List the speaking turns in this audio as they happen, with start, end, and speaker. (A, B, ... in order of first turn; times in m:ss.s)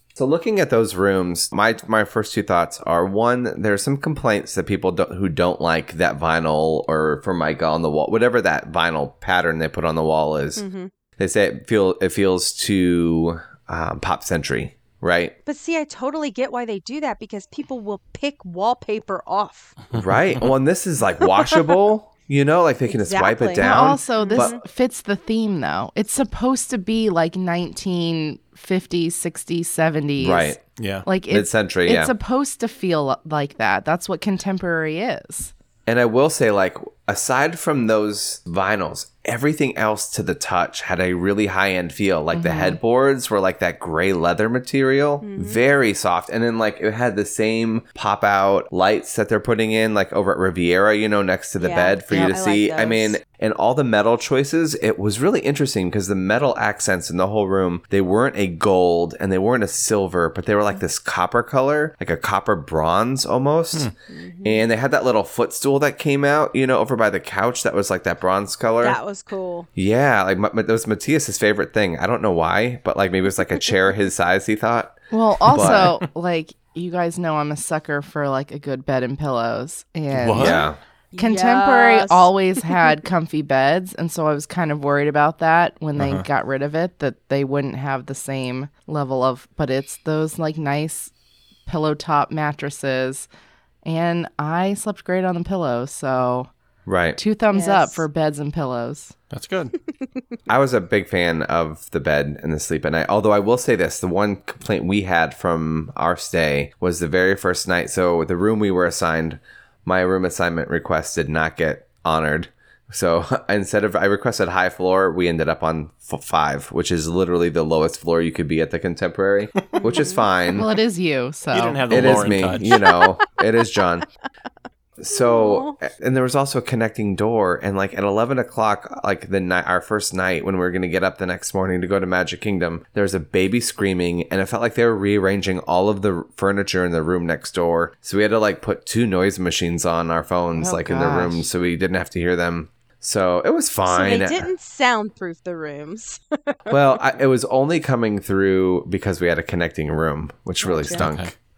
0:00.2-0:10.6 A
0:10.6-0:10.9 B
0:11.2-0:15.3 A
0:15.4-0:19.8 B
0:19.9-0:20.5 C
0:19.9-0:24.5 A
0:21.2-0:21.7 B
0:22.9-0:24.6 B
0:23.6-0:35.5 D
0:30.2-0:30.6 A
0:30.8-0:31.0 C
0:31.3-0:32.1 A
0:35.8-1:03.9 A
0:42.3-0:42.8 D
0:45.2-0:45.6 B
0:51.6-0:53.2 B
1:04.1-1:04.7 B
1:04.4-1:09.0 A
1:08.8-1:09.7 B
1:09.8-1:15.9 A
1:15.1-1:31.1 D
1:15.5-1:16.0 C
1:20.1-1:20.6 C
1:20.3-1:20.8 A
1:21.1-1:22.9 B
1:26.0-1:26.2 C
1:31.6-1:33.3 D
1:33.8-1:36.5 D
1:36.8-1:37.2 A
1:37.2-1:39.1 D
1:37.5-1:38.0 B
1:39.3-1:39.7 C
1:40.5-2:00.7 A
1:59.7-2:00.3 B
2:00.5-2:02.3 D
2:01.5-2:02.9 C
2:01.9-2:04.0 A
2:02.6-2:03.4 B
2:05.0-2:24.5 A
2:05.1-2:05.8 B
2:20.6-2:21.5 D
2:23.9-2:26.8 B
2:26.7-2:31.3 A
2:30.6-2:31.0 B
2:30.9-2:31.3 C